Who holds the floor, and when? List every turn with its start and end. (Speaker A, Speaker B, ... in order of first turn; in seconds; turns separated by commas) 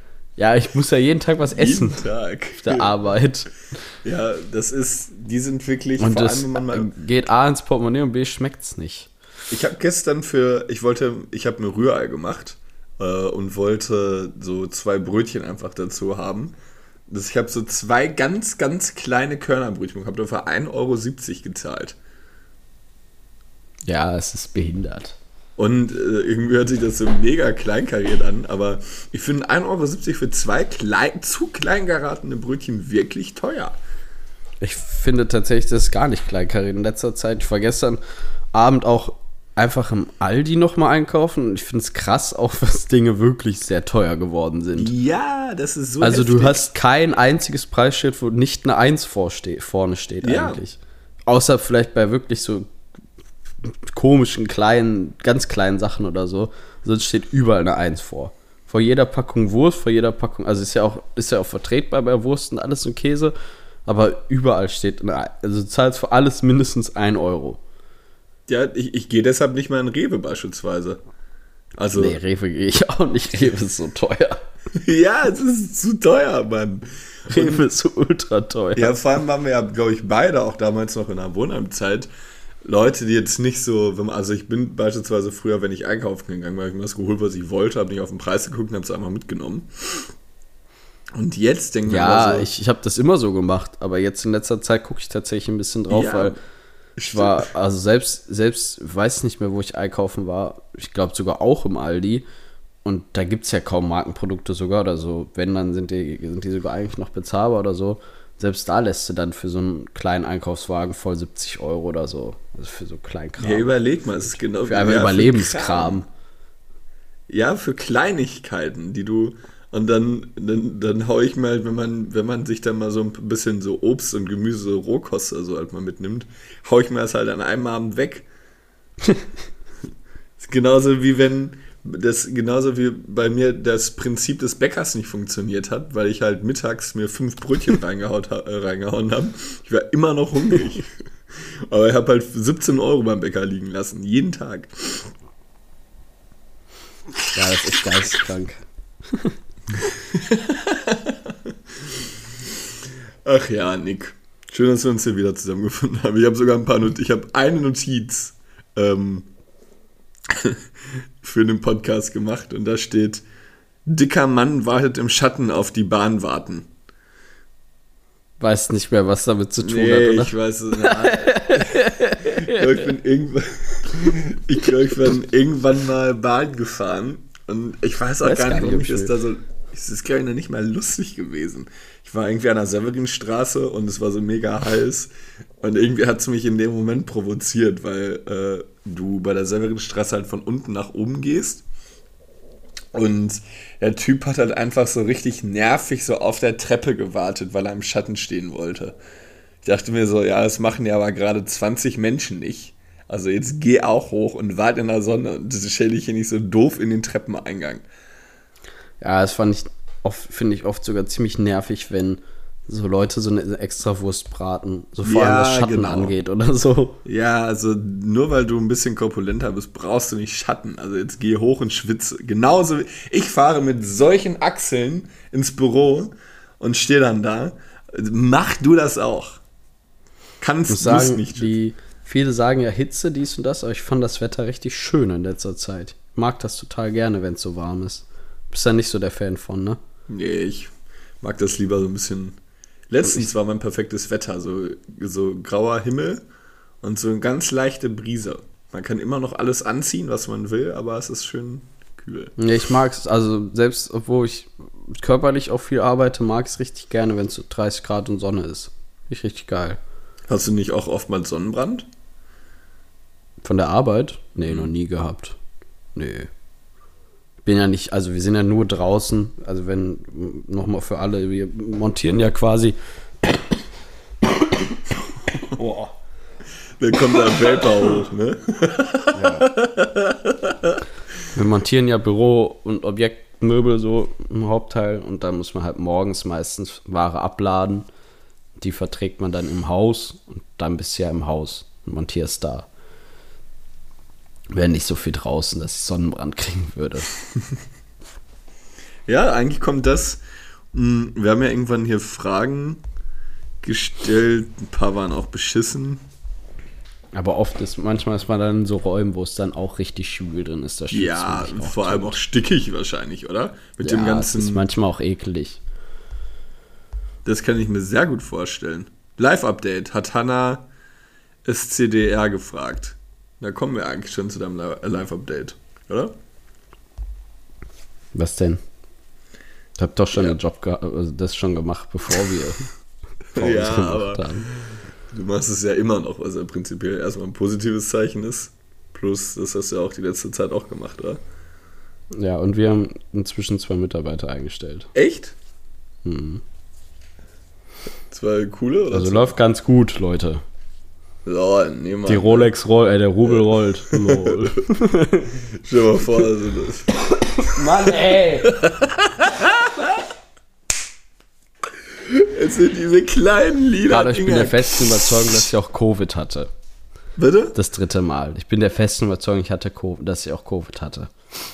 Speaker A: 0.4-2.0, Speaker B: 1.5-2.9, Speaker A: 2.6-3.5, Speaker B: 4.0-6.9, Speaker A: 6.0-9.1, Speaker B: 9.5-16.6, Speaker B: 17.1-22.0, Speaker A: 23.9-25.2, Speaker B: 25.6-33.8, Speaker A: 34.6-38.0, Speaker A: 38.5-44.9, Speaker B: 44.8-46.7, Speaker A: 46.0-52.7, Speaker B: 50.2-50.6, Speaker A: 53.6-63.3, Speaker A: 63.9-67.6, Speaker B: 68.5-71.0, Speaker B: 71.8-72.2, Speaker A: 71.9-74.4, Speaker B: 74.8-77.7, Speaker A: 77.3-79.0, Speaker B: 78.8-82.1, Speaker B: 82.6-90.1, Speaker B: 91.2-92.5, Speaker A: 91.8-96.4, Speaker B: 95.9-96.4, Speaker B: 97.0-97.5, Speaker A: 97.1-102.2, Speaker A: 102.8-113.7, Speaker B: 113.4-116.1, Speaker A: 114.6-116.1, Speaker B: 117.3-128.3, Speaker B: 130.4-145.1, Speaker A: 147.3-149.4, Speaker B: 149.8-159.3, Speaker B: 160.3-163.2, Speaker B: 163.9-166.7, Speaker A: 168.4-172.8, Speaker B: 169.6-185.1, Speaker A: 178.2-179.1, Speaker B: 185.6-191.6, Speaker B: 192.9-199.0, Speaker B: 199.6-207.8, Speaker A: 209.0-217.0, Speaker B: 215.0-216.1, Speaker B: 217.1-229.4, Speaker B: 230.4-231.5, Speaker A: 230.7-239.8, Speaker B: 240.1-242.4, Speaker B: 242.9-246.2, Speaker B: 246.8-252.3, Speaker A: 252.4-259.8, Speaker B: 260.3-261.9, Speaker A: 263.4-265.4, Speaker B: 264.4-264.7, Speaker A: 265.9-266.3, Speaker A: 267.4-272.8, Speaker A: 275.5-275.9, Speaker B: 276.8-280.8, Speaker A: 279.1-279.5, Speaker A: 281.3-287.9, Speaker A: 288.6-292.7, Speaker A: 294.5-297.1, Speaker B: 299.1-300.2, Speaker B: 300.7-302.8, Speaker B: 303.6-306.0, Speaker A: 307.1-312.2, Speaker B: 310.9-314.6, Speaker A: 313.8-315.6, Speaker B: 317.2-320.7, Speaker B: 321.4-326.2, Speaker A: 328.1-328.6, Speaker A: 329.8-332.7, Speaker B: 333.3-341.2, Speaker A: 333.4-334.5, Speaker A: 342.1-344.9, Speaker B: 344.9-345.4, Speaker A: 346.1-346.4, Speaker B: 348.1-349.4, Speaker A: 348.9-350.4, Speaker B: 351.2-352.5, Speaker A: 352.1-355.4, Speaker B: 353.2-354.5, Speaker B: 355.5-356.9, Speaker A: 357.2-358.6, Speaker B: 358.4-360.0, Speaker B: 361.9-365.5, Speaker A: 363.9-366.5, Speaker B: 367.2-367.6, Speaker A: 367.5-371.1